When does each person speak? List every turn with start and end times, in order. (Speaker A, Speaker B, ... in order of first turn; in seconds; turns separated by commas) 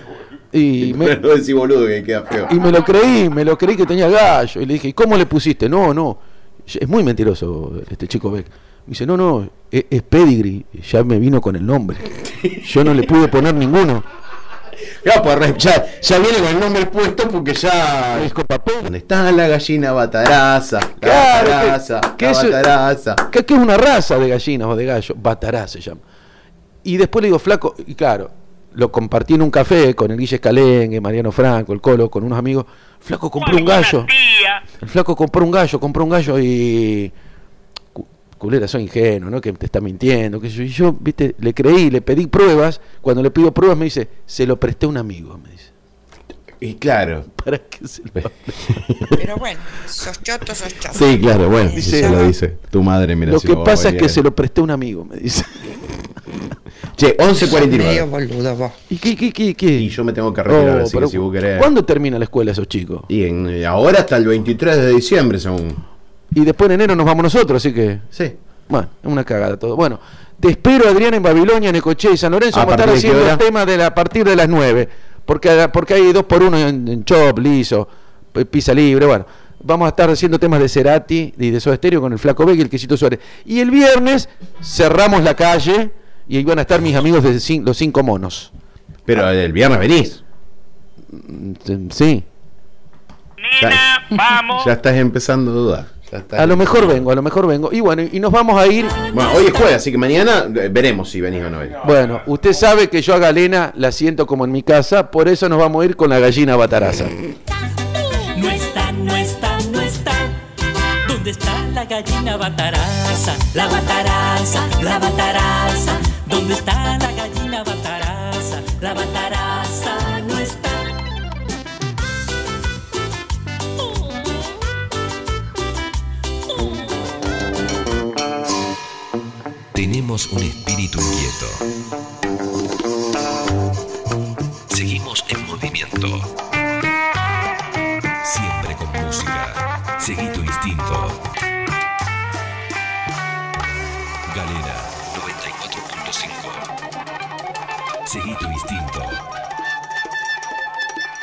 Speaker A: 0.5-1.2, Speaker B: 0.8-2.6, Speaker A: 2.5-14.1, Speaker B: 12.2-13.1, Speaker B: 14.9-18.3, Speaker A: 18.1-18.9, Speaker B: 18.9-23.2, Speaker A: 21.0-22.6, Speaker A: 23.2-26.0, Speaker A: 26.9-34.1, Speaker C: 33.4-34.6, Speaker A: 34.8-37.1, Speaker A: 38.0-45.7, Speaker B: 46.6-47.3, Speaker A: 47.4-48.7, Speaker B: 48.2-49.2, Speaker D: 49.2-52.3, Speaker B: 50.9-54.2, Speaker A: 51.8-52.3, Speaker A: 53.2-55.9, Speaker B: 57.0-58.1, Speaker D: 57.4-58.8, Speaker A: 58.9-59.9, Speaker B: 59.8-61.7, Speaker A: 60.5-63.1, Speaker B: 63.1-65.8, Speaker A: 66.3-68.1, Speaker A: 68.7-88.5, Speaker B: 72.5-73.4, Speaker B: 89.1-90.2, Speaker A: 91.1-92.3, Speaker C: 93.4-94.7, Speaker B: 93.6-93.8, Speaker B: 94.5-97.1, Speaker A: 96.4-99.0, Speaker B: 99.1-101.9, Speaker A: 101.8-107.2, Speaker E: 108.3-110.4, Speaker E: 111.0-120.9, Speaker F: 129.7-131.7, Speaker F: 134.7-136.3, Speaker F: 138.2-141.2, Speaker F: 144.3-146.7, Speaker F: 148.1-149.2